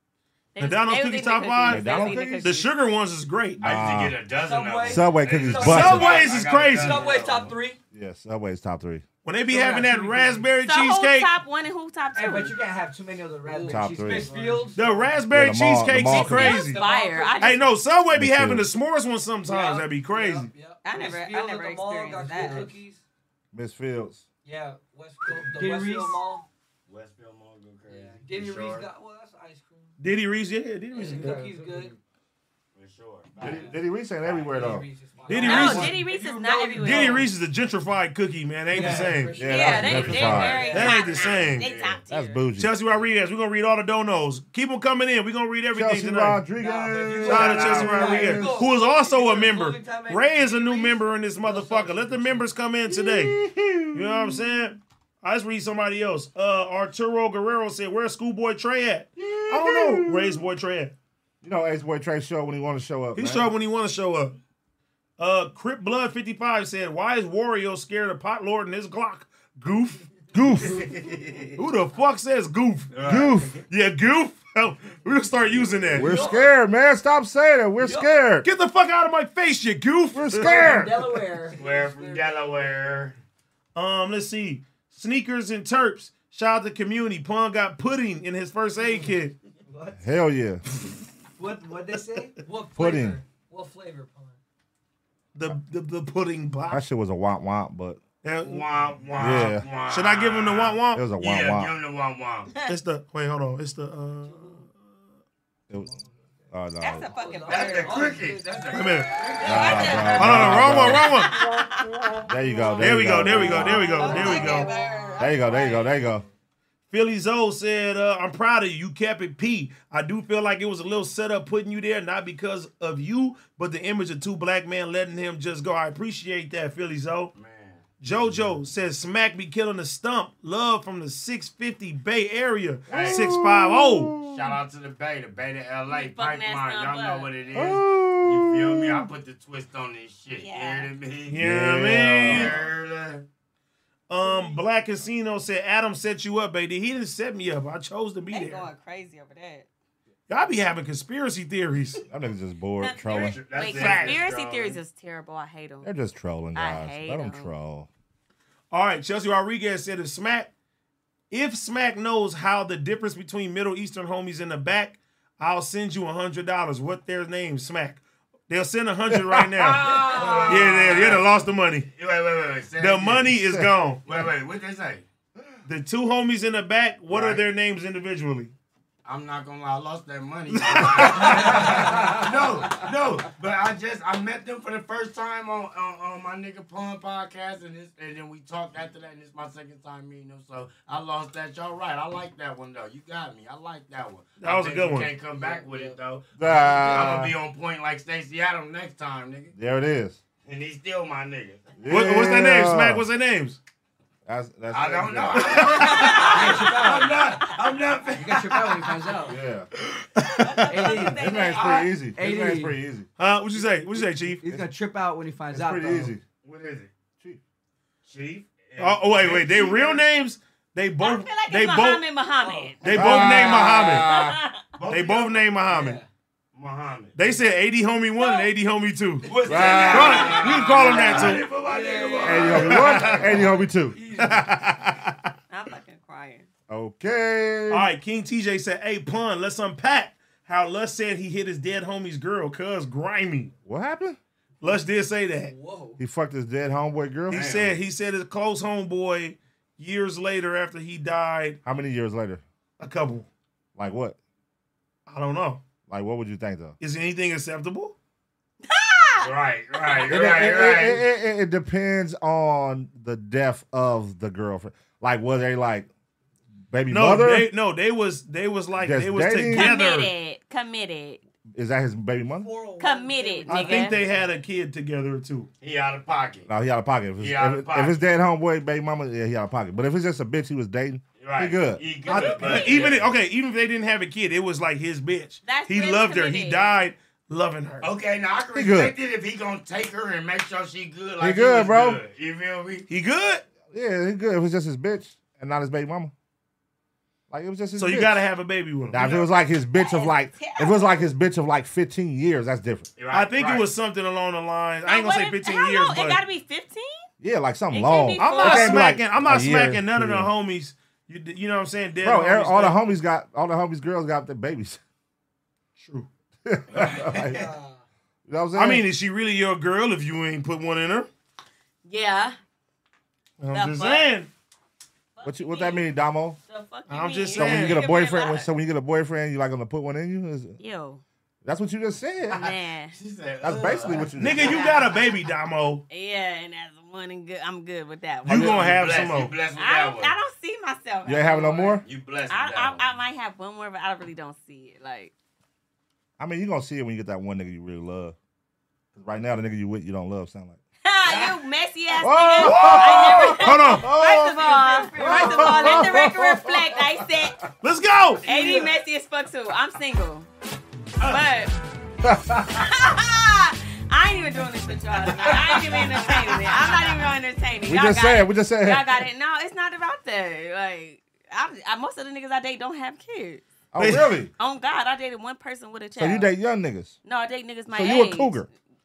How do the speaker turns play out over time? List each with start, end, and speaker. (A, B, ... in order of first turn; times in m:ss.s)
0:00.5-0:02.7 A
0:00.6-0:03.6 B
0:01.7-0:02.5 C
0:03.6-0:07.6 D
0:03.6-0:04.2 C
0:04.3-0:07.8 E
0:04.8-0:06.2 C
0:05.6-0:07.1 B
0:07.9-0:09.0 C
0:09.2-0:11.3 B
0:09.5-0:10.5 E
0:10.6-0:12.6 A
0:12.1-0:15.2 E
0:13.7-0:14.4 C
0:14.8-0:16.8 B
0:15.3-0:16.7 C
0:16.1-0:17.7 A
0:16.7-0:17.7 E
0:17.4-0:20.5 B
0:18.1-0:18.7 C
0:19.4-0:23.0 E
0:20.8-0:22.8 A
0:23.5-0:24.2 C
0:24.4-0:26.4 E
0:26.9-0:28.9 D
0:27.9-0:30.0 E
0:30.0-0:31.6 B
0:30.9-0:32.0 E
0:32.8-0:34.4 D
0:33.4-0:34.9 C
0:34.3-0:37.3 E
0:35.3-0:36.1 B
0:35.3-0:37.3 A
0:36.8-0:39.4 B
0:38.7-0:41.0 E
0:39.4-0:40.7 C
0:39.4-0:42.4 A
0:40.0-0:41.7 B
0:40.9-0:42.0 D
0:42.1-0:42.7 C
0:42.6-0:46.4 B
0:45.7-0:48.7 C
0:46.5-0:52.5 E
0:47.2-0:53.4 B
0:47.4-0:48.2 D
0:52.9-0:54.4 C
0:53.9-1:00.9 B
0:59.2-1:00.4 C
1:01.4-1:03.5 C
1:03.2-1:04.4 B
1:05.2-1:10.0 B
1:10.3-1:10.9 C
1:10.6-1:11.6 D
1:11.6-1:12.9 B
1:12.9-1:13.7 D
1:13.0-1:13.6 C
1:13.7-1:16.3 B
1:15.9-1:18.5 C
1:16.0-1:16.5 E
1:17.8-1:18.2 E
1:18.4-1:20.8 B
1:20.1-1:21.0 C
1:20.3-1:23.0 E
1:21.5-1:23.2 D
1:23.8-1:29.4 B
1:28.8-1:29.1 E
1:29.7-1:30.1 E
1:30.0-1:30.6 C
1:31.4-1:34.4 E
1:32.7-1:33.2 C
1:35.4-1:36.8 B
1:36.7-1:38.0 C
1:38.2-1:38.7 B
1:38.4-1:42.6 D
1:39.2-1:39.7 C
1:39.2-1:41.1 B
1:40.9-1:41.8 C
1:42.6-1:44.7 B
1:44.3-1:44.6 E
1:45.7-1:46.0 C
1:46.5-1:47.1 C
1:46.8-1:48.1 A
1:47.1-1:50.5 E
1:47.5-1:49.7 D
1:48.7-1:49.1 B
1:49.2-1:51.8 A
1:49.4-1:51.2 C
1:50.2-1:51.3 B
1:52.3-1:54.5 C
1:52.8-1:54.7 B
1:53.5-1:55.9 A
1:53.8-1:55.4 E
1:55.2-1:56.2 C
1:56.9-2:07.3 B
2:07.4-2:07.9 D
2:08.0-2:14.2 B
2:12.9-2:13.3 D
2:12.9-2:14.6 C
2:14.2-2:21.4 D
2:15.9-2:17.4 A
2:17.5-2:19.1 C
2:20.3-2:20.9 A
2:21.3-2:22.6 C
2:21.3-2:22.7 B
2:22.2-2:23.3 D
2:24.1-2:28.7 B
2:28.3-2:29.7 A
2:30.3-2:32.0 B
2:32.1-2:33.4 C
2:32.8-2:35.9 A
2:33.1-2:34.8 D
2:33.7-2:34.3 B
2:35.8-2:37.9 C
2:36.6-2:37.5 A
2:38.7-2:40.5 B
2:41.3-2:51.9 B
2:49.1-2:49.7 C
2:49.6-2:51.3 D
2:49.9-2:50.6 E
2:51.9-2:53.4 D
2:52.8-2:54.1 B
2:53.3-2:53.7 C
2:54.1-2:55.0 D
2:55.7-2:58.5 B
2:57.1-2:57.4 D
2:59.0-3:19.5 D
3:00.6-3:01.3 B
3:01.1-3:02.9 E
3:14.4-3:15.2 B
3:15.3-3:17.2 E
3:16.4-3:17.4 C
3:19.6-3:20.2 C
3:20.4-3:21.8 D
3:21.8-3:23.1 C
3:21.9-3:23.6 B
3:24.3-3:26.0 C
3:24.7-3:29.0 D
3:25.4-3:26.2 B
3:25.9-3:27.5 E
3:26.0-3:26.5 A
3:28.1-3:29.4 E
3:29.3-3:29.7 C
3:30.2-3:30.4 B
3:30.4-3:31.9 A
3:30.7-3:32.8 E
3:30.7-3:33.1 C
3:31.6-3:31.9 D
3:33.2-3:34.5 B
3:34.4-3:36.2 E
3:35.5-3:36.2 C
3:36.4-3:36.9 D
3:38.0-3:40.0 D
3:38.8-3:42.0 B
3:41.0-3:44.7 A
3:42.8-3:44.0 B
3:42.9-3:44.4 C
3:44.8-3:45.5 D
3:44.9-3:46.0 B
3:45.7-3:46.1 E
3:46.5-3:47.2 D
3:47.2-3:51.5 B
3:48.2-3:48.5 A
3:49.3-3:53.6 D
3:49.4-3:50.3 E
3:49.5-3:50.7 C
3:51.4-3:54.6 E
3:52.2-3:55.0 C
3:52.5-3:53.4 B
3:54.2-3:55.0 B
3:55.5-3:56.5 A
3:56.7-3:57.9 C
3:57.7-4:03.5 B
4:03.7-4:04.2 C
4:04.6-4:05.5 B
4:05.4-4:06.0 E
4:06.0-4:07.7 C
4:07.3-4:07.7 D
4:07.3-4:11.6 B
4:11.6-4:12.4 C
4:12.8-4:13.3 B
4:13.8-4:14.2 C
4:15.1-4:15.6 B
4:15.9-4:16.8 C
4:16.8-4:18.0 B
4:18.6-4:20.2 A
4:19.2-4:21.0 D
4:20.0-4:25.9 C
4:26.7-4:27.5 C
4:26.9-4:30.1 B
4:28.8-4:29.8 C
4:29.5-4:31.2 A
4:31.5-4:32.5 C
4:32.3-4:34.4 E
4:32.8-4:34.0 A
4:33.5-4:35.5 B
4:35.6-4:36.5 D
4:36.5-4:41.9 C
4:37.2-4:38.0 D
4:41.2-4:43.1 D
4:42.1-4:47.9 B
4:42.1-4:42.9 A
4:45.4-4:46.8 A
4:47.8-4:52.9 D
4:48.5-4:49.0 C
4:51.2-4:52.0 C
4:52.9-4:53.4 B
4:53.7-4:56.1 C
4:57.3-4:58.2 C
4:57.8-4:59.3 B
4:58.9-5:02.9 C
4:59.7-5:01.1 A
5:03.0-5:03.7 D
5:03.1-5:06.2 B
5:04.9-5:07.1 A
5:07.2-5:10.3 C
5:07.7-5:08.9 A
5:08.2-5:12.8 B
5:12.0-5:14.8 C
5:15.8-5:16.1 B
5:16.4-5:17.4 C
5:16.8-5:17.5 D
5:17.2-5:17.8 E
5:18.3-5:18.9 C
5:18.6-5:21.1 B
5:21.8-5:22.4 A
5:23.4-5:24.3 B
5:23.5-5:24.1 A
5:25.2-5:25.9 A
5:25.2-5:26.4 C
5:26.5-5:28.5 A
5:26.9-5:27.8 B
5:27.3-5:30.6 C
5:30.6-5:31.0 A
5:31.4-5:32.5 C
5:32.3-5:33.0 A
5:32.9-5:34.8 D
5:33.4-5:34.6 C
5:34.2-5:35.8 B
5:34.4-5:34.8 A
5:35.9-5:38.8 A
5:38.2-5:39.4 B
5:38.3-5:40.1 D
5:39.6-5:45.1 A
5:41.1-5:41.8 C
5:41.8-5:42.9 D
5:46.2-5:48.2 C
5:49.0-5:50.6 C
5:50.8-5:57.4 A
5:52.0-5:57.3 C
5:52.4-5:53.9 B
5:57.6-5:58.6 B
5:58.2-6:00.3 A
6:01.0-6:01.6 A
6:02.0-6:02.9 C
6:02.6-6:13.4 A
6:05.1-6:05.8 C
6:07.6-6:09.0 C
6:13.7-6:14.3 C
6:13.8-6:14.2 B
6:14.4-6:16.3 A
6:16.0-6:17.0 C
6:17.0-6:18.4 A
6:17.7-6:18.5 C